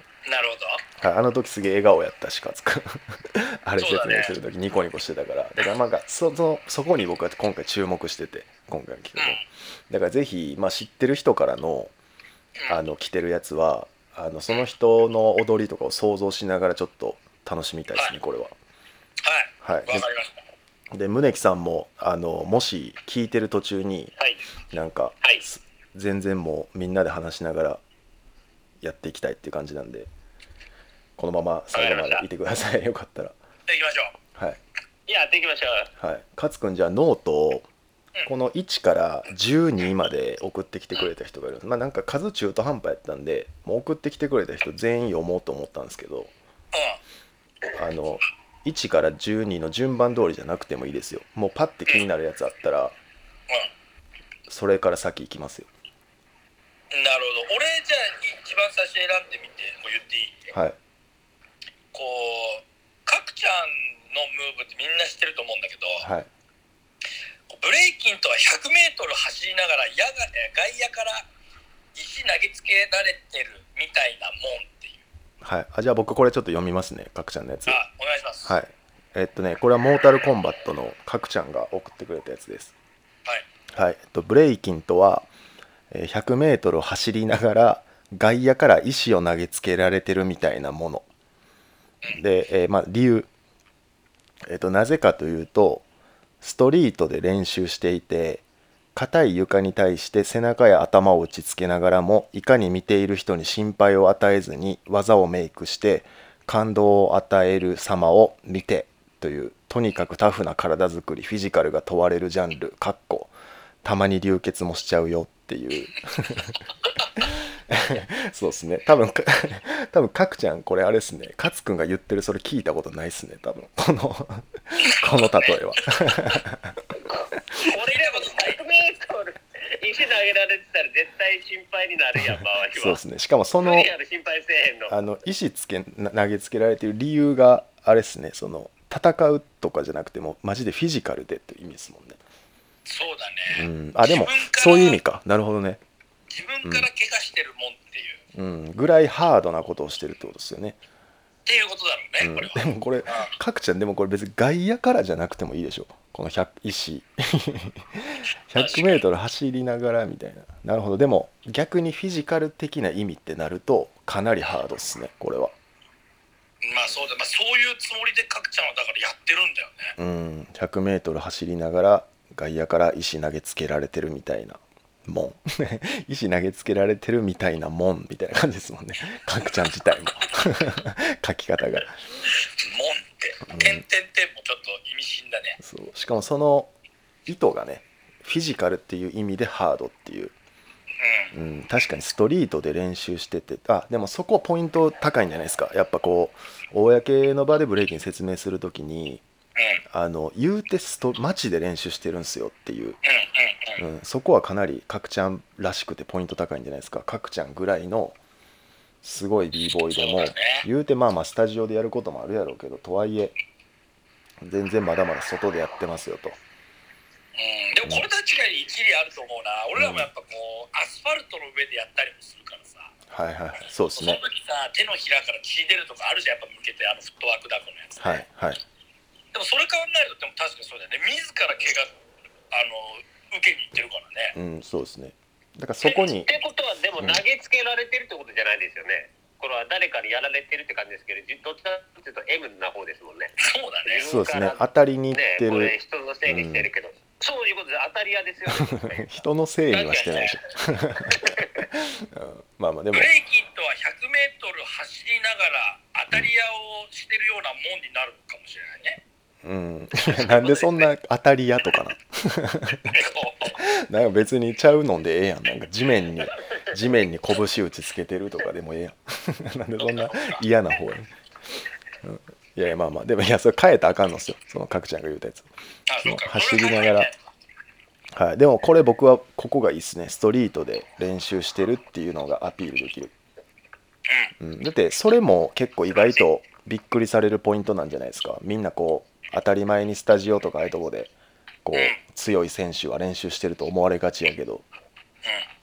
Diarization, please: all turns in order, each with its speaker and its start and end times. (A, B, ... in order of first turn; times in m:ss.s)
0:00.3-0:00.8 A
0:01.0-0:11.9 B
0:03.8-0:04.4 A
0:09.2-0:09.4 A
0:12.7-0:18.6 B
0:19.2-0:20.4 A
0:19.6-0:20.1 B
0:20.9-0:24.1 B
0:24.7-0:27.8 B
0:28.8-0:30.1 B
0:31.2-0:33.4 B
0:31.7-0:32.3 C
0:33.7-0:34.1 A
0:34.4-0:34.6 B
0:35.1-0:35.9 C
0:36.0-0:37.7 B
0:38.3-0:46.3 B
0:46.7-0:47.0 A
0:47.8-0:53.0 B
0:54.5-0:55.7 B
0:56.9-1:00.5 A
1:00.5-1:00.8 B
1:01.9-1:06.1 A
1:06.0-1:06.3 B
1:07.5-1:11.3 A
1:12.0-1:15.0 A
1:15.4-1:17.8 B
1:17.7-1:18.6 A
1:18.4-1:22.7 B
1:23.7-1:25.3 B
1:25.9-1:31.0 B
1:32.1-1:33.3 B
1:34.5-1:35.8 B
1:36.4-1:38.4 B
1:39.0-1:53.3 B
1:53.8-1:56.6 B
1:57.2-2:06.8 B
2:04.9-2:06.0 A
2:07.5-2:13.0 C
2:07.6-2:08.6 A
2:12.7-2:13.9 B
2:13.6-2:14.9 C
2:14.9-2:22.2 B
2:22.9-2:25.0 A
2:23.5-2:25.8 B
2:26.3-2:28.2 A
2:28.3-2:30.8 B
2:31.5-2:33.3 A
2:32.2-2:45.5 B
2:38.6-2:39.0 A
2:46.6-2:50.0 A
2:50.0-3:02.0 B
3:02.3-3:05.6 A
3:03.5-3:03.8 B
3:05.6-3:06.7 B
3:07.3-3:10.3 B
3:11.0-3:11.3 A
3:11.3-3:19.2 B
3:19.6-3:19.8 A
3:19.9-3:23.0 B
3:23.1-3:23.8 A
3:23.8-3:28.2 B
3:29.0-3:33.3 B
3:29.9-3:30.7 A
3:34.4-3:36.4 B
3:37.4-3:42.9 A
3:39.8-3:40.1 B
3:43.1-3:44.2 B
3:44.0-3:48.2 A
3:48.0-3:48.6 B
3:49.3-3:51.9 A
3:52.5-3:54.4 A
3:54.4-3:56.3 B
3:56.2-4:03.3 C
4:03.4-4:04.1 A
4:03.9-4:09.1 C
4:04.0-4:06.7 B
4:08.5-4:13.1 B
4:09.7-4:10.4 A
4:11.2-4:11.6 C
4:12.9-4:19.0 A
4:19.4-4:31.1 B
4:20.1-4:20.9 A
4:22.9-4:23.6 A
4:29.8-4:30.4 A
4:32.0-4:35.5 B
4:35.9-4:37.2 A
4:36.0-4:37.1 B
4:38.1-4:43.1 B
4:44.1-4:44.3 A
4:44.4-4:51.1 B
4:46.0-4:46.2 A
4:51.6-4:54.7 B
4:51.7-4:52.0 A